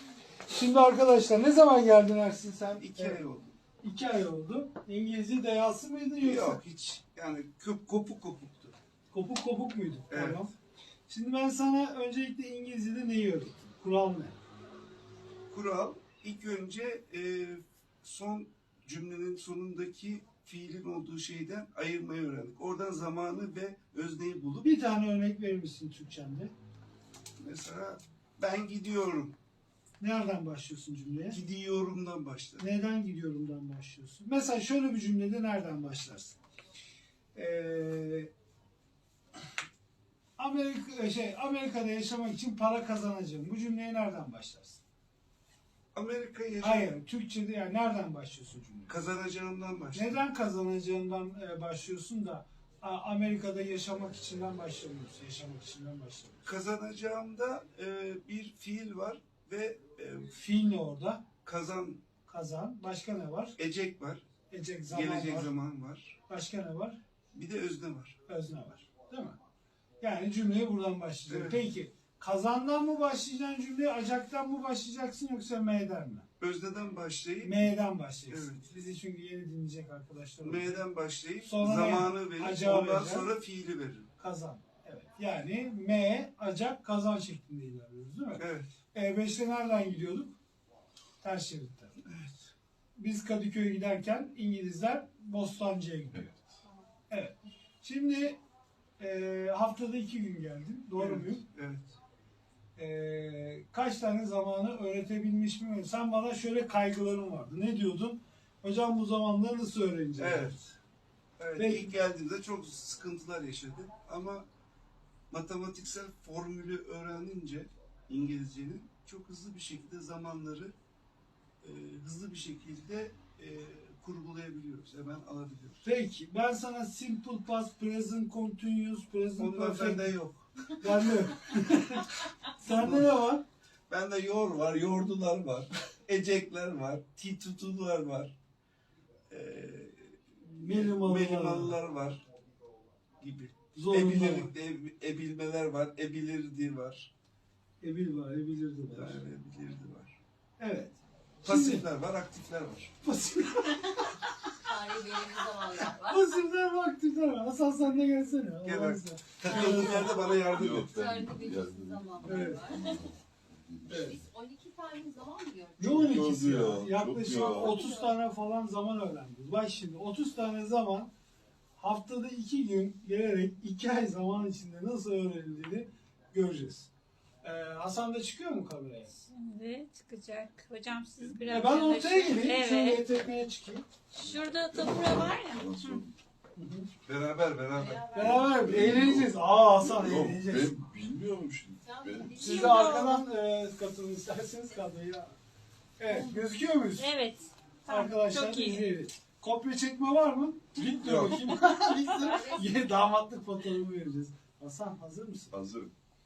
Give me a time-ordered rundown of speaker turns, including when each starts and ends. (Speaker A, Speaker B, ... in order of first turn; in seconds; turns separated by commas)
Speaker A: 0.5-3.2, Speaker B: 2.8-3.5, Speaker A: 3.8-6.6, Speaker B: 6.2-8.8, Speaker A: 9.1-10.5, Speaker B: 10.1-10.4, Speaker A: 11.1-14.4, Speaker B: 15.5-24.7, Speaker A: 24.6-26.5, Speaker B: 27.4-29.4, Speaker A: 30.0-31.4, Speaker B: 31.3-32.6, Speaker A: 32.6-36.4, Speaker A: 37.3-38.3, Speaker A: 40.4-44.8, Speaker B: 45.9-47.0, Speaker A: 46.6-49.0, Speaker B: 48.9-50.2, Speaker A: 49.9-56.5, Speaker B: 56.4-60.3, Speaker A: 60.3-61.2, Speaker B: 61.4-62.0, Speaker A: 62.2-63.5, Speaker B: 63.6-64.2, Speaker A: 64.5-65.5, Speaker B: 64.9-66.2, Speaker A: 66.3-67.0, Speaker B: 67.3-68.2, Speaker A: 68.2-69.4, Speaker A: 70.0-76.3, Speaker B: 71.3-71.6, Speaker B: 76.4-77.6, Speaker A: 77.4-80.8, Speaker B: 78.3-78.8, Speaker B: 80.4-84.1, Speaker A: 81.4-83.3, Speaker A: 84.2-90.4, Speaker B: 88.3-88.7, Speaker A: 91.2-92.0, Speaker B: 92.0-92.5, Speaker A: 93.0-96.4, Speaker A: 97.1-98.4, Speaker A: 99.0-101.4, Speaker B: 101.0-101.9, Speaker A: 102.8-110.5, Speaker B: 110.2-110.8, Speaker B: 111.4-114.4, Speaker A: 111.5-111.9, Speaker B: 115.3-120.7, Speaker B: 121.6-125.8, Speaker A: 125.8-130.1, Speaker B: 129.4-131.6, Speaker A: 130.7-133.4, Speaker B: 132.6-133.2, Speaker B: 133.9-138.3, Speaker B: 139.3-142.2, Speaker A: 140.6-141.8, Speaker B: 143.2-147.1, Speaker A: 143.7-144.5, Speaker A: 147.8-149.2, Speaker B: 148.9-150.2, Speaker A: 150.6-151.8, Speaker B: 151.4-153.0, Speaker A: 153.0-154.1, Speaker C: 154.6-156.2, Speaker A: 156.0-160.1, Speaker B: 158.6-161.2, Speaker C: 159.7-163.1, Speaker D: 160.5-162.4, Speaker A: 162.2-162.6, Speaker C: 163.8-166.3, Speaker A: 163.9-164.2, Speaker A: 165.8-171.1, Speaker D: 166.1-167.8, Speaker C: 167.3-168.1, Speaker A: 171.8-176.9, Speaker A: 177.4-179.1, Speaker E: 179.2-183.0, Speaker A: 181.4-183.8, Speaker E: 184.1-186.1, Speaker D: 185.7-186.0, Speaker A: 186.6-186.9, Speaker B: 187.1-189.1, Speaker C: 187.7-188.8, Speaker A: 188.1-190.8, Speaker D: 188.5-189.3, Speaker D: 189.9-192.4, Speaker C: 191.8-193.1, Speaker A: 192.3-195.4, Speaker E: 192.4-193.2, Speaker A: 196.0-197.1, Speaker E: 196.1-196.4, Speaker E: 197.0-198.8, Speaker A: 197.8-205.5, Speaker B: 201.0-201.4, Speaker C: 202.1-202.7